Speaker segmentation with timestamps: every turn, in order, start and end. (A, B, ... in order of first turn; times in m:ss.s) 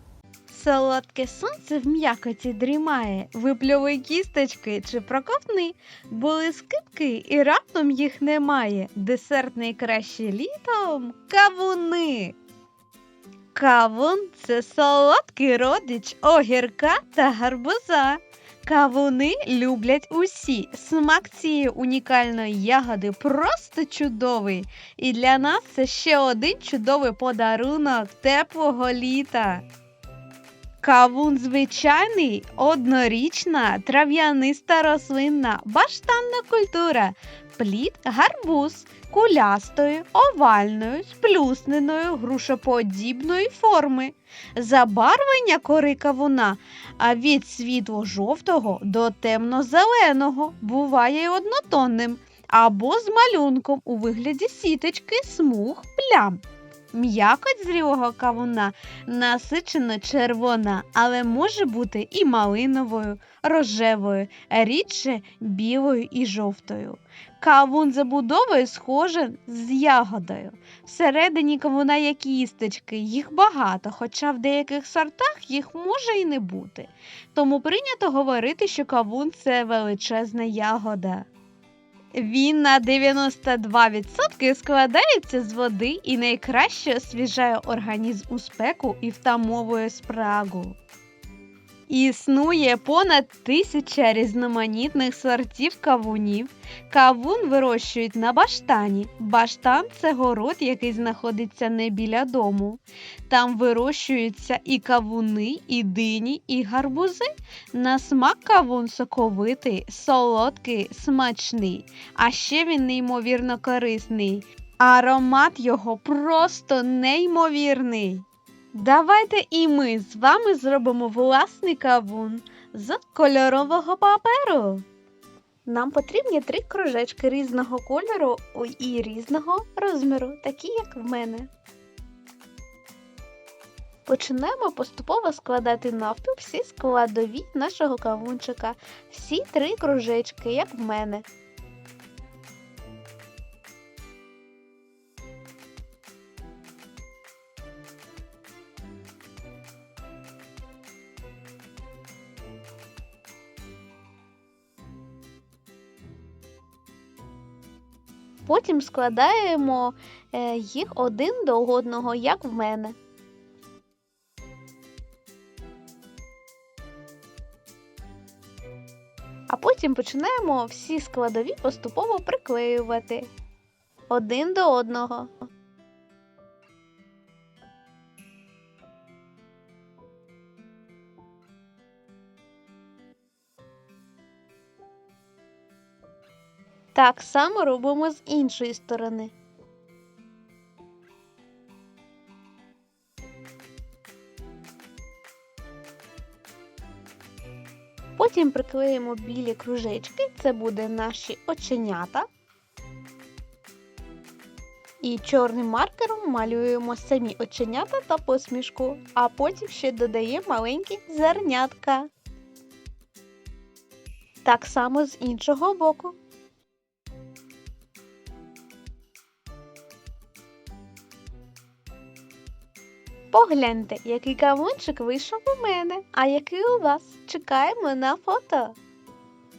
0:00.5-0:12.4 A
0:13.5-0:29.6 A
0:30.8-0:56.4 A
0:56.9-1:21.3 A
1:22.1-1:30.8 A
1:31.9-2:04.8 A
2:05.7-2:11.5 A
2:14.1-2:21.3 A
2:38.5-2:43.0 A
2:49.5-2:53.3 A
2:54.1-2:55.3 A
3:06.9-3:09.3 A
3:18.2-3:22.3 A
3:25.0-3:32.1 A
3:34.4-3:36.2 A
3:43.3-3:48.8 A